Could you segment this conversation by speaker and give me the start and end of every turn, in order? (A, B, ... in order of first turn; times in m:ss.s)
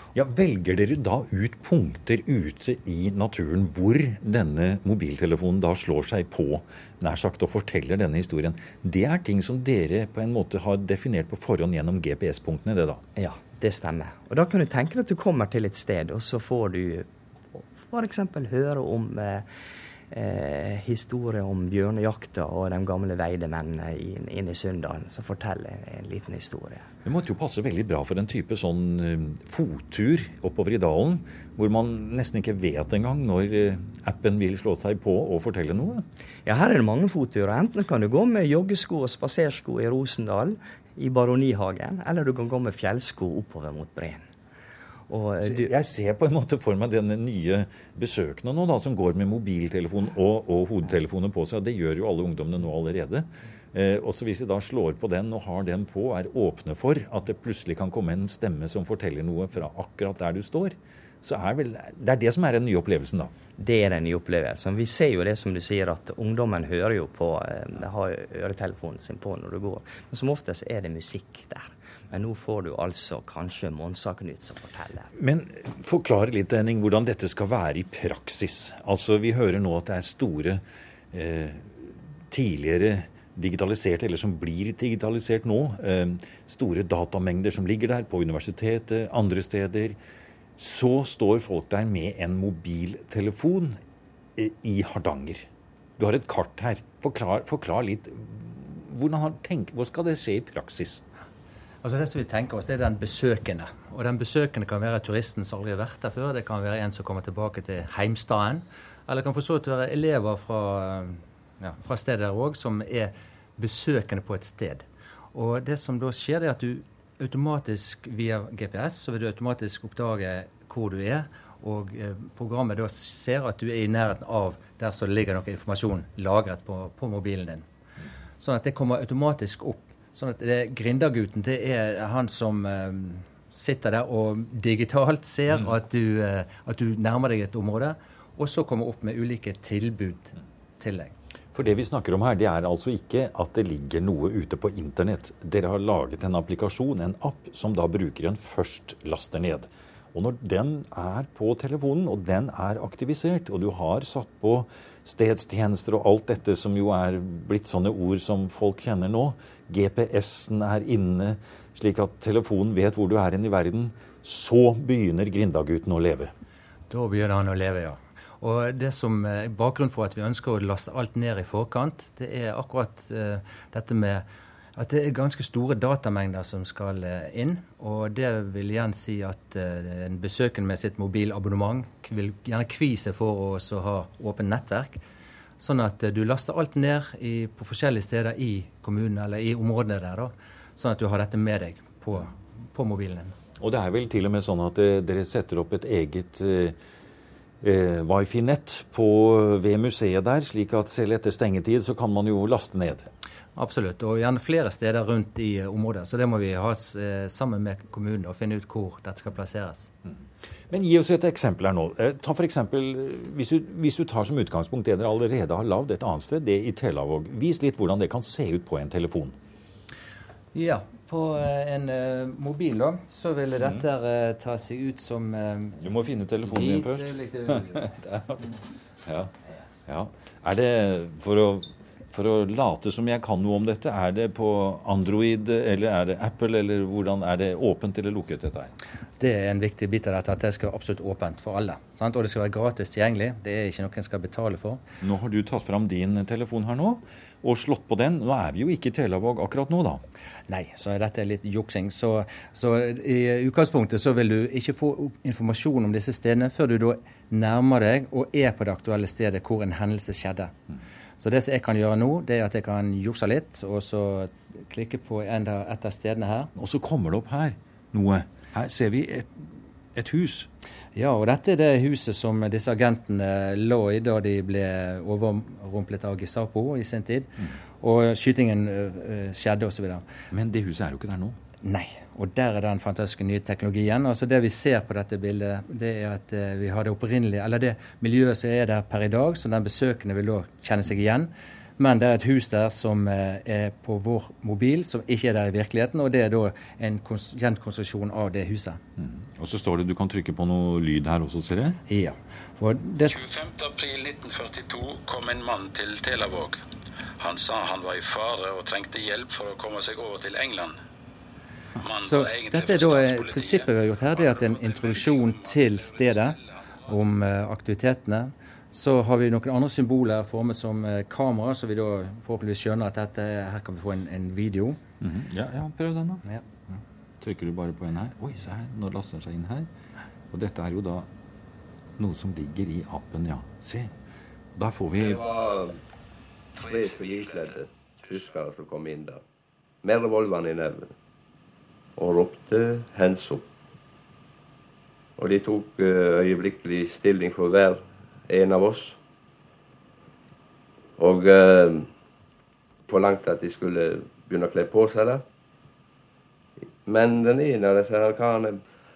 0:00.1-0:13.0 A
0:13.2-0:19.5 B
0:20.1-0:26.9 B
0:27.0-0:36.1 A
0:36.4-0:44.2 B
0:45.1-0:45.7 B
0:45.4-1:03.3 A
1:03.6-1:15.1 B
1:15.2-1:30.0 A
1:30.6-1:33.8 A
1:34.4-1:35.5 A
1:36.0-1:41.0 A
1:41.8-2:07.7 C
2:08.4-2:21.1 C
2:21.5-2:46.3 A
2:46.9-2:54.2 C
2:54.8-3:05.0 C
3:05.6-3:13.4 C
3:13.6-3:16.8 A
3:17.6-3:23.1 A
3:23.6-3:29.9 C
3:30.7-3:39.4 A
3:40.5-3:45.8 C
3:45.8-3:48.5 A
3:46.4-3:47.8 C
3:49.0-3:49.3 A
3:49.9-3:58.7 A
3:59.2-4:04.8 C
4:05.0-4:10.0 A
4:10.5-4:20.5 C
4:21.2-4:26.5 C
4:26.6-4:30.5 A
4:31.0-4:40.0 C
4:40.3-4:41.4 A
4:41.6-4:58.8 C
4:59.0-5:01.8 A
5:01.9-5:03.2 C
5:03.1-5:06.6 D
5:07.2-5:10.8 D
5:11.8-5:13.7 D
5:12.0-5:24.8 C
5:14.2-5:16.4 D
5:25.0-5:29.7 A
5:30.3-5:31.1 A
5:32.0-5:34.0 A
5:34.6-5:35.3 A
5:35.2-5:35.8 E
5:36.6-5:39.2 E
5:39.8-5:40.9 E
5:42.0-5:43.4 E
5:45.2-5:49.0 E
5:51.0-5:51.9 E
5:52.9-5:55.2 E
5:56.9-5:58.6 E